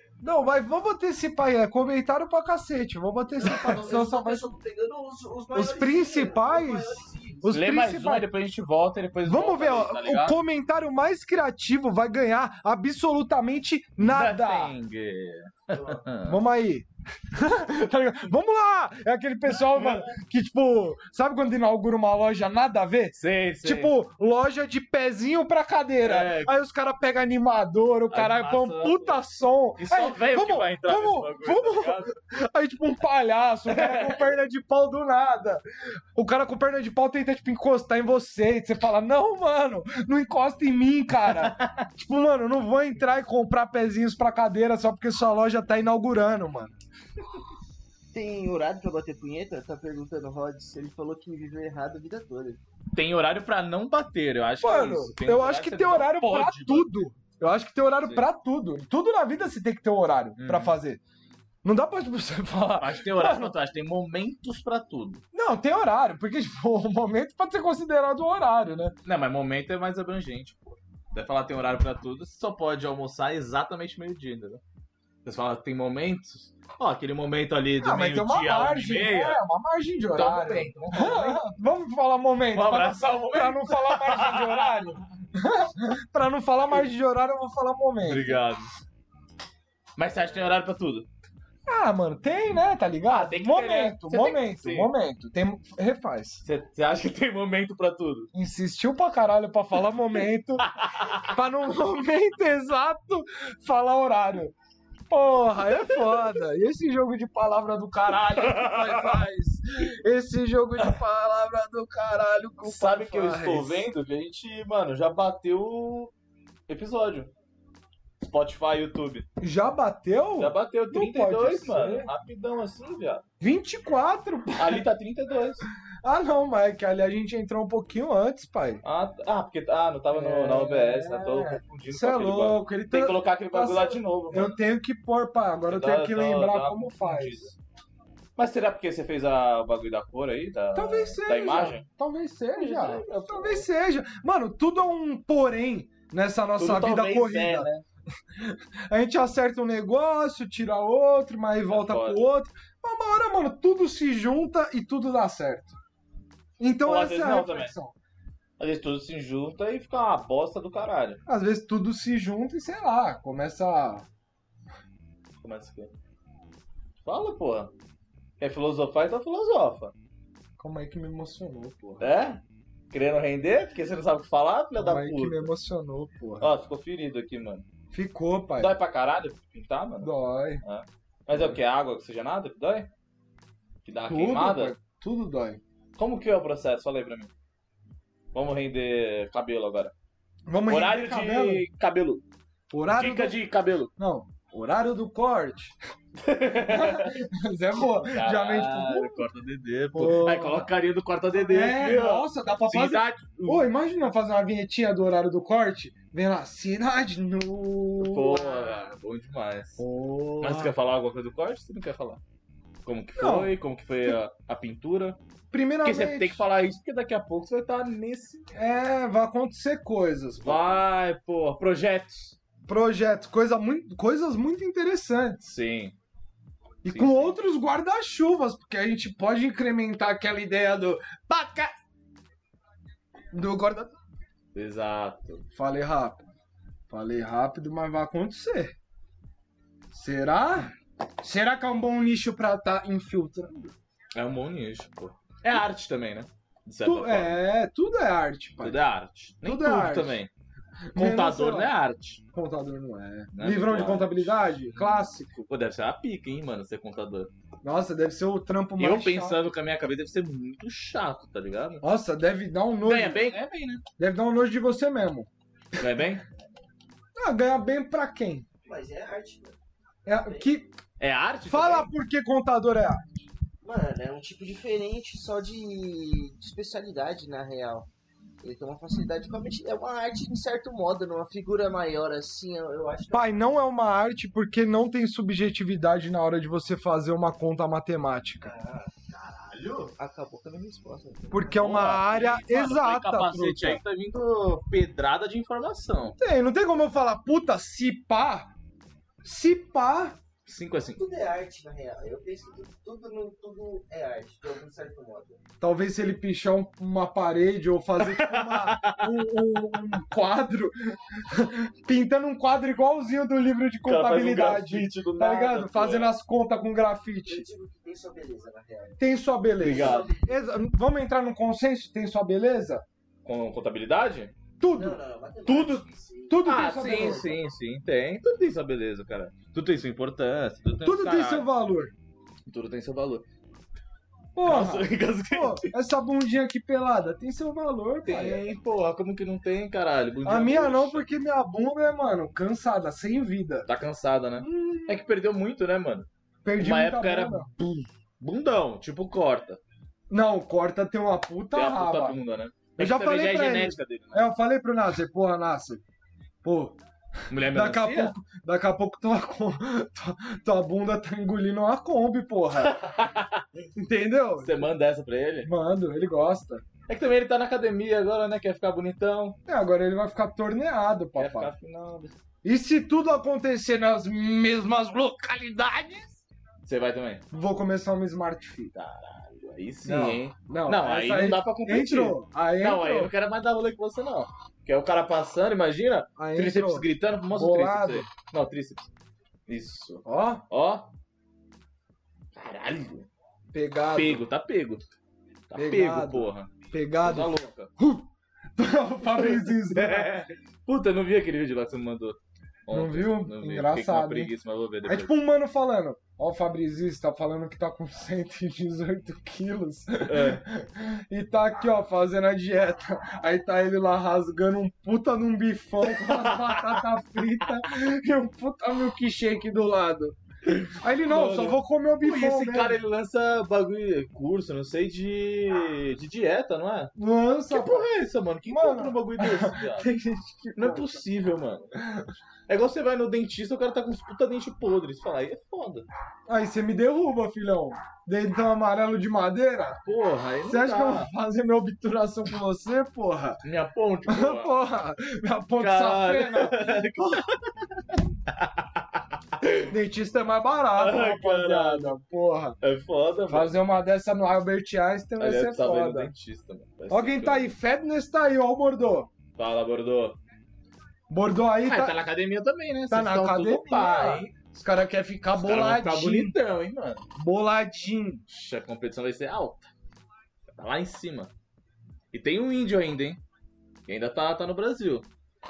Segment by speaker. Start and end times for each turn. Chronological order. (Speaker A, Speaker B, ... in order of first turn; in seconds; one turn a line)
Speaker A: 0.2-4.5
Speaker B: 3.4-7.5
Speaker A: 5.5-8.3
Speaker C: 7.5-10.4
Speaker A: 9.2-14.8
Speaker C: 14.0-16.4
Speaker A: 16.2-35.6
Speaker C: 19.7-20.1
Speaker C: 23.2-23.9
Speaker C: 26.0-26.5
Speaker C: 28.1-29.2
Speaker C: 29.8-32.1
Speaker C: 33.7-34.2
Speaker A: 36.1-46.8
Speaker C: 41.3-41.9
Speaker B: 48.1-52.6
Speaker C: 52.9-57.0
Speaker A: 54.6-61.0
Speaker C: 60.4-60.8
Speaker A: 61.6-63.5
Speaker C: 62.8-65.2
Speaker A: 65.3-69.0
Speaker C: 69.0-74.6
Speaker C: 75.2-79.4
Speaker A: 77.8-88.4
Speaker C: 80.1-81.4
Speaker C: 82.5-85.0
Speaker C: 88.0-88.7
Speaker C: 90.0-91.1
Speaker A: 91.7-96.4
Speaker C: 93.1-94.9
Speaker C: 96.4-98.3
Speaker A: 98.3-100.7
Speaker C: 100.7-101.3
Speaker A: 101.2-104.5
Speaker A: 105.1-113.9
Speaker C: 105.7-106.2
Speaker C: 108.1-109.2
Speaker C: 112.6-116.1
Speaker C: 116.7-117.3
Speaker C: 118.2-119.3
Speaker A: 119.4-122.1
Speaker C: 120.4-123.3
Speaker A: 123.4-124.9
Speaker C: 124.6-125.7
Speaker A: 126.0-128.8
Speaker C: 128.8-134.6
Speaker A: 130.1-137.5
Speaker C: 135.7-137.6
Speaker C: 138.4-141.8
Speaker A: 140.7-147.7
Speaker C: 142.6-143.7
Speaker C: 146.6-147.8
Speaker A: 148.3-155.7
Speaker C: 151.7-152.2
Speaker A: 156.6-157.9
Speaker C: 156.8-157.8
Speaker C: 158.6-161.2
Speaker A: 161.3-164.1
Speaker C: 165.4-165.9
Speaker C: 167.1-167.7
Speaker C: 168.4-169.9
Speaker A: 170.6-172.1
Speaker C: 172.0-175.5
Speaker A: 174.8-176.5
Speaker C: 176.4-177.7
Speaker A: 177.9-178.7
Speaker C: 178.6-180.1
Speaker A: 180.0-180.6
Speaker C: 180.6-182.9
Speaker C: 183.8-184.8
Speaker A: 184.1-185.6
Speaker C: 186.0-187.3
Speaker C: 188.3-189.9
Speaker A: 190.5-191.7
Speaker C: 190.7-192.2
Speaker A: 192.7-193.4
Speaker C: 192.9-193.9
Speaker A: 194.0-195.8
Speaker C: 196.2-197.2
Speaker A: 196.7-199.2
Speaker C: 197.9-203.7
Speaker A: 199.9-200.7
Speaker A: 201.3-208.7
Speaker C: 208.0-209.8
Speaker A: 209.8-210.8
Speaker C: 210.4-212.2
Speaker C: 212.8-215.2
Speaker A: 213.2-213.5
Speaker A: 215.5-216.4
Speaker C: 215.8-218.5
Speaker A: 218.5-220.8
Speaker C: 220.4-222.4
Speaker A: 222.7-225.4
Speaker C: 225.4-226.0
Speaker A: 226.8-231.7
Speaker C: 226.9-227.4
Speaker A: 233.3-233.9
Speaker C: 234.6-235.4
Speaker A: 235.5-236.3
Speaker A: 236.9-238.8
Speaker A: 239.9-243.8
Speaker C: 244.2-247.4
Speaker A: 246.8-248.8
Speaker C: 248.6-250.3
Speaker A: 249.4-250.2
Speaker A: 250.9-251.7
Speaker C: 250.9-252.2
Speaker A: 252.3-255.3
Speaker C: 253.3-257.3
Speaker A: 257.6-259.4
Speaker C: 258.8-261.8
Speaker A: 261.8-263.4
Speaker C: 262.8-263.8
Speaker A: 264.0-265.3
Speaker C: 265.8-266.2
Speaker A: 267.2-268.5
Speaker B: 268.6-269.6
Speaker A: 270.1-270.8
Speaker C: 271.0-271.9
Speaker A: 271.4-273.1
Speaker B: 273.6-277.9
Speaker B: 278.4-283.4
Speaker A: 283.1-288.5
Speaker B: 288.4-288.9
Speaker C: 289.2-289.9
Speaker B: 289.9-291.9
Speaker A: 291.3-293.8
Speaker C: 291.5-296.2
Speaker A: 296.2-298.5
Speaker A: 299.2-300.2
Speaker C: 300.5-301.0
Speaker B: 301.0-305.4
Speaker A: 305.6-317.5
Speaker C: 308.0-309.3
Speaker C: 313.9-316.1
Speaker B: 317.3-319.0
Speaker A: 319.0-322.8
Speaker C: 319.6-320.1
Speaker B: 319.6-320.4
Speaker C: 323.2-324.3
Speaker A: 324.6-325.7
Speaker B: 324.6-326.6
Speaker C: 325.5-325.8
Speaker A: 326.3-327.4
Speaker C: 326.4-331.5
Speaker A: 330.8-331.9
Speaker C: 332.5-333.2
Speaker A: 334.4-338.4
Speaker C: 334.4-335.7
Speaker C: 338.1-341.1
Speaker A: 340.2-343.7
Speaker C: 343.7-349.6
Speaker A: 344.4-345.0
Speaker A: 346.4-347.5
Speaker A: 350.1-352.2
Speaker C: 351.5-354.3
Speaker A: 352.8-355.8
Speaker A: 356.4-356.8
Speaker C: 357.3-358.1
Speaker A: 357.4-362.8
Speaker C: 362.6-363.5
Speaker A: 363.8-364.7
Speaker C: 364.4-365.5
Speaker A: 365.4-366.6
Speaker C: 366.9-369.4
Speaker A: 369.5-371.5
Speaker C: 371.2-372.1
Speaker A: 372.4-376.2
Speaker C: 376.6-377.2
Speaker A: 377.3-378.7
Speaker C: 378.7-388.9
Speaker A: 379.8-383.1
Speaker A: 386.2-388.1
Speaker C: 389.5-390.9
Speaker A: 390.1-390.4
Speaker C: 392.4-393.1
Speaker A: 393.5-394.2
Speaker C: 393.9-394.8
Speaker C: 395.5-397.7
Speaker A: 395.6-400.2
Speaker C: 399.1-405.1
Speaker A: 402.7-404.3
Speaker A: 404.9-422.8
Speaker C: 410.1-410.4
Speaker C: 415.9-416.9
Speaker C: 420.5-426.9
Speaker A: 427.0-427.9
Speaker C: 427.5-429.9
Speaker A: 428.5-431.0
Speaker C: 430.6-431.7
Speaker A: 431.8-432.1
Speaker C: 432.5-435.9
Speaker A: 436.3-439.8
Speaker C: 439.8-441.1
Speaker A: 440.4-443.4
Speaker C: 443.4-444.5
Speaker A: 444.1-446.8
Speaker C: 445.6-449.7
Speaker A: 449.7-452.6
Speaker C: 450.8-452.0
Speaker C: 452.6-453.6
Speaker A: 453.3-456.1
Speaker C: 455.2-457.5
Speaker A: 456.9-459.1
Speaker C: 459.4-460.2
Speaker A: 461.1-462.0
Speaker C: 461.6-464.3
Speaker A: 462.9-466.4
Speaker C: 465.3-467.1
Speaker A: 467.2-468.2
Speaker C: 468.3-469.7
Speaker C: 470.6-471.3
Speaker C: 472.1-473.2
Speaker C: 473.9-475.1